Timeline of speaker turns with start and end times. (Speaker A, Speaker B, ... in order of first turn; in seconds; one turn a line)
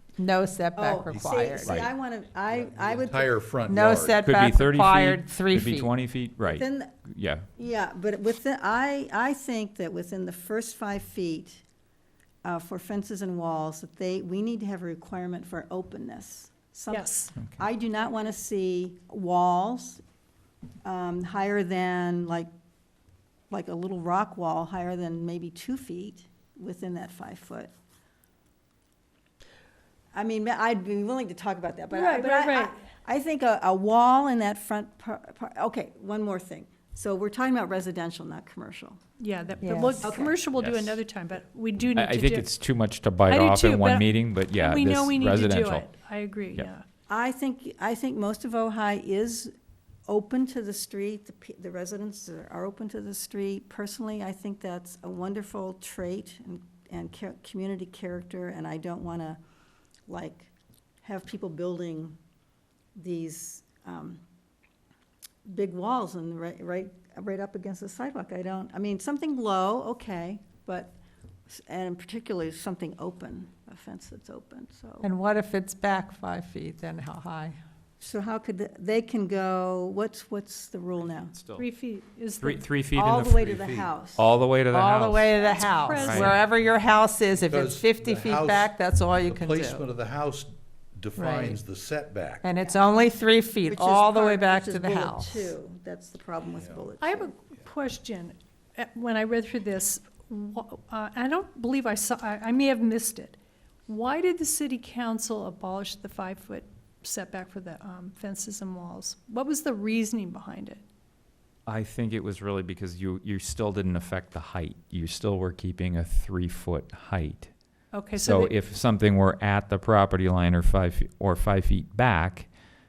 Speaker A: 0.2-1.8
Speaker B: 0.8-3.4
Speaker C: 1.1-1.9
Speaker C: 2.5-4.2
Speaker A: 3.7-5.9
Speaker D: 4.2-7.5
Speaker B: 6.4-7.0
Speaker B: 7.6-11.6
Speaker B: 12.4-20.0
Speaker E: 16.9-17.3
Speaker B: 20.8-22.5
Speaker B: 23.5-27.7
Speaker B: 30.1-39.0
Speaker E: 31.9-32.8
Speaker E: 39.2-42.5
Speaker A: 39.6-40.1
Speaker B: 40.0-40.4
Speaker D: 40.5-41.0
Speaker D: 41.9-45.9
Speaker E: 43.2-46.8
Speaker B: 47.1-49.5
Speaker B: 50.1-59.4
Speaker B: 60.1-62.2
Speaker B: 63.0-64.2
Speaker B: 65.5-71.0
Speaker B: 71.5-75.1
Speaker A: 75.0-77.6
Speaker B: 78.0-81.3
Speaker D: 81.3-81.7
Speaker E: 81.6-82.7
Speaker D: 82.4-86.4
Speaker B: 83.0-84.3
Speaker C: 83.5-83.9
Speaker A: 84.7-89.9
Speaker E: 85.4-86.4
Speaker C: 87.4-92.5
Speaker A: 91.2-91.6
Speaker A: 92.4-95.5
Speaker B: 93.7-97.3
Speaker C: 96.6-96.9
Speaker E: 97.0-110.8
Speaker D: 111.7-117.5
Speaker E: 117.9-118.5
Speaker D: 118.1-122.5